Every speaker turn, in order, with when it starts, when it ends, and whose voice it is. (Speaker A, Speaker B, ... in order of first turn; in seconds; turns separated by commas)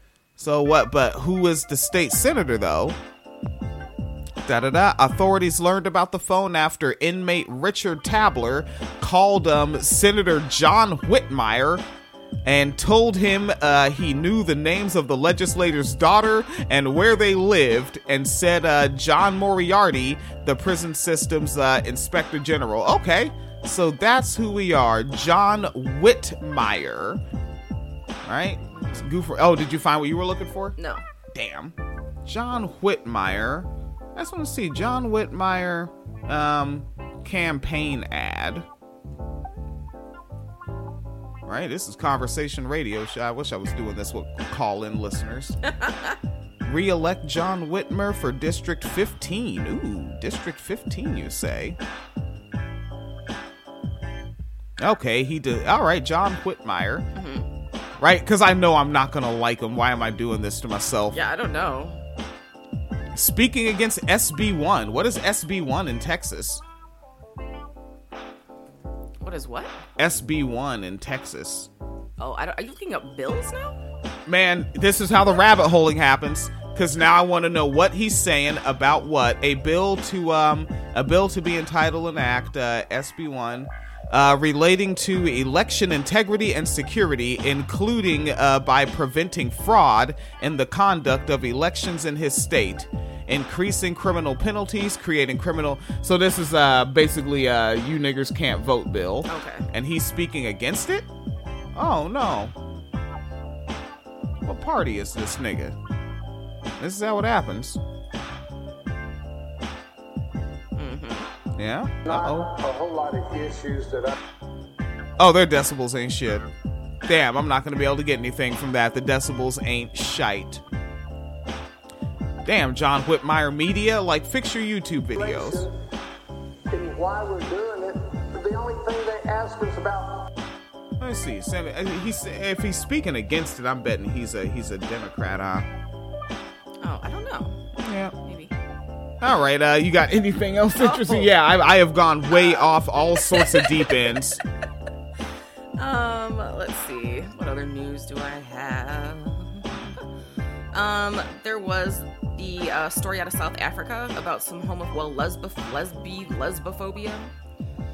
Speaker A: 0.4-3.0, Speaker A: 4.4-11.8, Speaker A: 12.4-27.2, Speaker A: 28.2-30.8, Speaker B: 28.7-29.1, Speaker B: 30.8-31.0, Speaker A: 31.3-38.6, Speaker A: 41.4-45.6, Speaker B: 45.6-46.2, Speaker A: 46.6-51.8, Speaker A: 54.8-57.0, Speaker B: 57.1-57.5, Speaker A: 58.0-61.2, Speaker B: 61.1-62.0, Speaker A: 63.1-66.6, Speaker B: 69.2-69.8, Speaker A: 70.0-71.7, Speaker B: 72.2-73.8, Speaker A: 74.3-101.1, Speaker B: 99.3-99.7, Speaker A: 101.7-102.5, Speaker A: 104.4-105.8, Speaker A: 106.8-107.8, Speaker B: 110.7-111.3, Speaker A: 111.5-112.5, Speaker C: 112.0-114.1, Speaker A: 115.2-116.5, Speaker A: 117.0-120.6, Speaker A: 122.4-125.7, Speaker C: 125.1-125.7, Speaker C: 126.7-130.2, Speaker A: 131.0-135.7, Speaker B: 136.8-138.5, Speaker A: 137.8-138.1, Speaker A: 139.2-144.4, Speaker B: 140.8-141.3, Speaker B: 142.3-144.0, Speaker B: 145.8-149.7, Speaker B: 150.7-157.3